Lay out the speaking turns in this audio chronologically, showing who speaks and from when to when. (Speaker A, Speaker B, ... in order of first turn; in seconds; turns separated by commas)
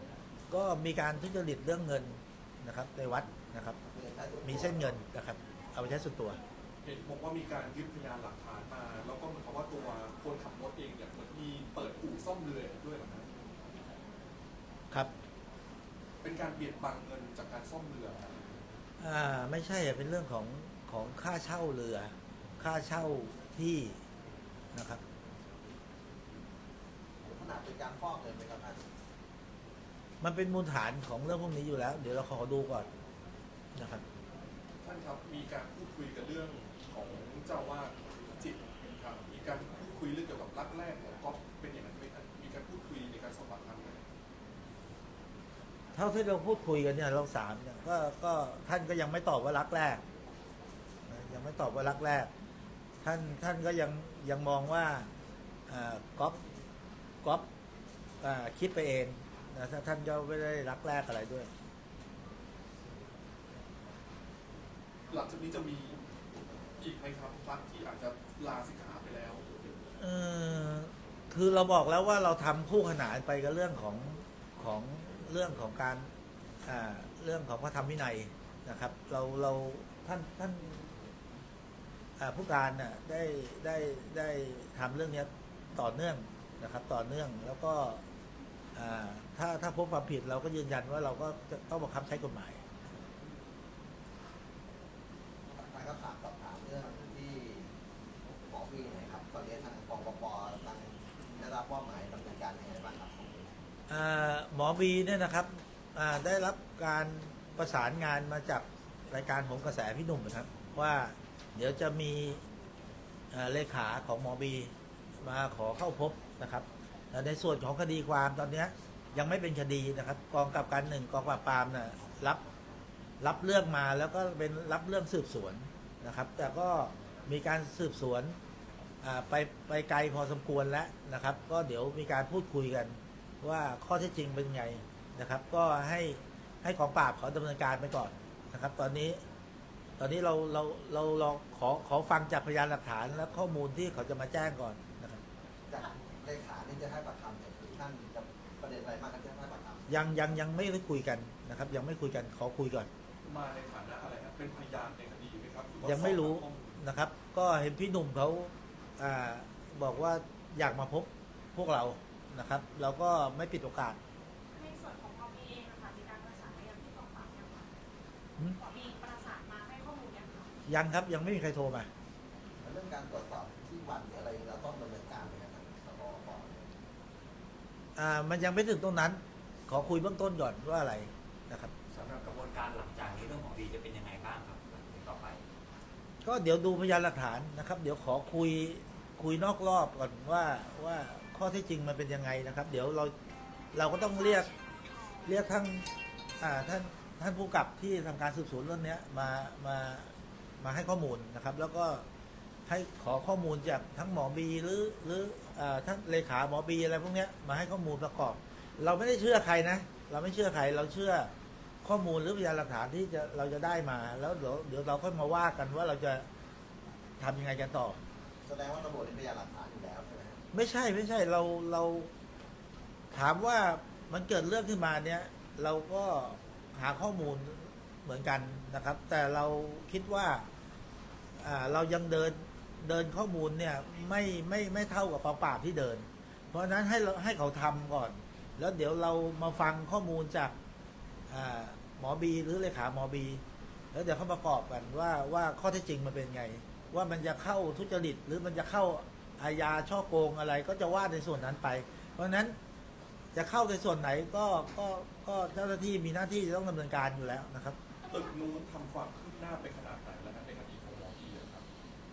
Speaker A: 0.5-3.8, Speaker B: 3.9-4.8, Speaker A: 4.4-6.4, Speaker C: 6.8-13.3, Speaker C: 16.2-18.2, Speaker A: 19.0-24.0, Speaker A: 24.7-25.0, Speaker B: 27.3-28.8, Speaker A: 30.2-32.9, Speaker A: 33.8-34.0, Speaker C: 34.8-44.0, Speaker A: 46.0-50.0, Speaker A: 51.1-52.3, Speaker A: 53.0-55.1, Speaker A: 55.7-56.4, Speaker A: 58.2-61.5, Speaker C: 65.1-66.0, Speaker C: 66.8-69.5, Speaker A: 70.0-76.1, Speaker A: 76.7-80.8, Speaker A: 82.2-88.0, Speaker A: 88.8-92.6, Speaker B: 95.5-97.7, Speaker B: 98.5-103.5, Speaker A: 103.9-112.4, Speaker A: 113.3-122.4, Speaker A: 123.2-128.4, Speaker A: 129.0-139.2, Speaker A: 140.0-145.2, Speaker B: 145.7-149.9, Speaker A: 149.9-152.9, Speaker C: 153.3-156.8, Speaker A: 155.8-164.0, Speaker D: 164.5-167.7, Speaker D: 168.6-170.5, Speaker A: 170.7-171.9, Speaker B: 172.6-176.7, Speaker A: 178.0-181.7, Speaker E: 181.9-185.4, Speaker A: 186.2-193.1, Speaker A: 193.7-194.5, Speaker A: 195.2-195.8, Speaker A: 196.4-202.1, Speaker A: 202.7-211.3, Speaker A: 211.8-216.3, Speaker A: 217.2-218.0, Speaker B: 218.5-220.4, Speaker A: 220.5-222.1, Speaker A: 223.1-230.5, Speaker A: 231.4-240.6, Speaker A: 241.3-243.4, Speaker A: 243.9-252.6, Speaker A: 253.3-257.8, Speaker C: 258.1-261.6